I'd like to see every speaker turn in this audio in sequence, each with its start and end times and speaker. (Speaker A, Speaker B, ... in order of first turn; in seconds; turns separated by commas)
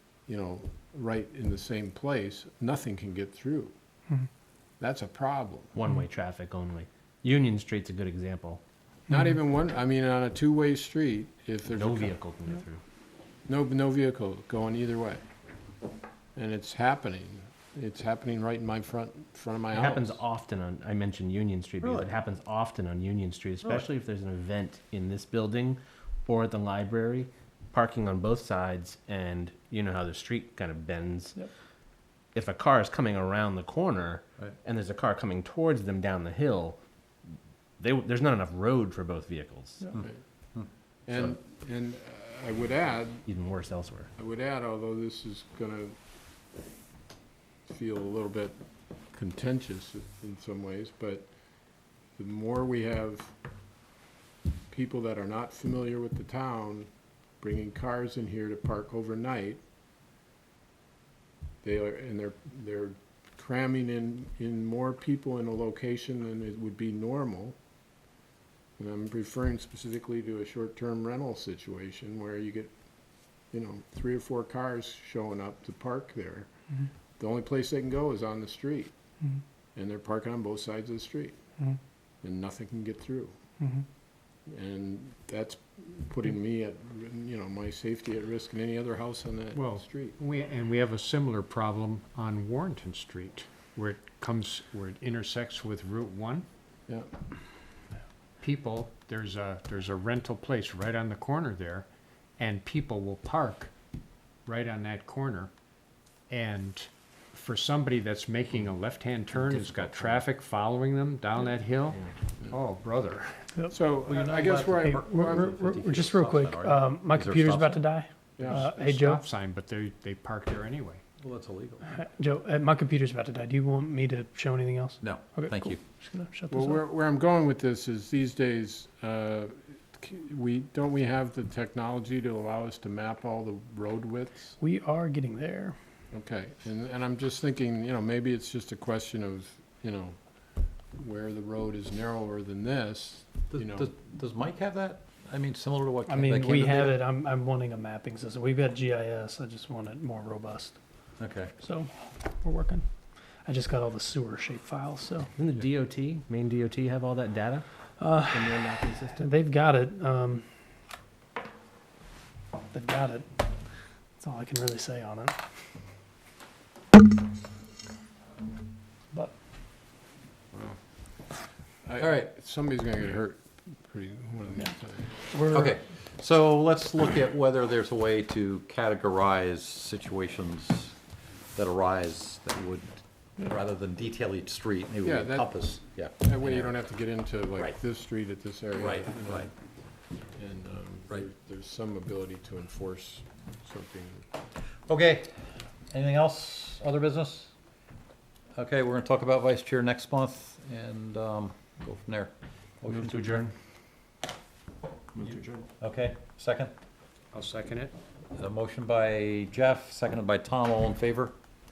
Speaker A: 0.3-3.7, Speaker A: 4.8-5.8, Speaker B: 5.8-8.6, Speaker A: 9.1-12.2, Speaker B: 11.7-12.8, Speaker A: 13.5-15.2, Speaker A: 16.4-20.2, Speaker B: 19.8-31.4, Speaker B: 32.3-36.8, Speaker B: 37.8-39.9, Speaker C: 39.9-40.7, Speaker A: 41.1-43.2, Speaker B: 43.3-44.1, Speaker A: 44.2-46.0, Speaker A: 47.7-48.6, Speaker A: 49.1-51.3, Speaker A: 52.2-53.4, Speaker A: 54.7-56.9, Speaker A: 57.4-59.6, Speaker A: 61.6-67.6, Speaker A: 68.8-72.7, Speaker A: 73.5-76.5, Speaker A: 77.2-78.9, Speaker A: 79.8-81.4, Speaker A: 82.2-83.3, Speaker D: 83.6-83.9, Speaker A: 84.5-90.2, Speaker E: 89.5-96.5, Speaker E: 98.4-101.9, Speaker E: 102.4-103.7, Speaker E: 104.5-105.5, Speaker E: 106.3-114.2, Speaker B: 109.6-110.2, Speaker A: 113.7-115.6, Speaker C: 114.1-118.0, Speaker D: 114.8-119.2, Speaker A: 118.4-118.7, Speaker E: 118.5-121.0, Speaker C: 121.2-121.8, Speaker D: 121.9-126.8, Speaker C: 125.0-125.8, Speaker A: 126.5-134.6, Speaker D: 134.6-135.8, Speaker A: 136.1-140.2, Speaker A: 141.0-143.9, Speaker C: 143.5-147.0, Speaker D: 146.1-150.8, Speaker C: 151.2-151.5, Speaker D: 151.6-152.9, Speaker D: 153.4-155.3, Speaker B: 155.4-157.7, Speaker D: 158.0-160.5, Speaker B: 158.2-159.3, Speaker D: 162.7-163.4, Speaker D: 164.2-165.4, Speaker A: 171.8-175.1, Speaker D: 175.3-175.8, Speaker C: 175.5-181.0, Speaker C: 181.6-186.9, Speaker A: 185.0-185.6, Speaker A: 186.2-189.5, Speaker C: 188.8-189.5, Speaker A: 190.4-194.3, Speaker C: 194.9-195.3, Speaker C: 195.9-197.5, Speaker C: 198.6-203.4, Speaker B: 202.8-203.5, Speaker B: 205.2-205.6, Speaker C: 205.8-206.7, Speaker E: 207.3-207.9, Speaker C: 208.4-211.3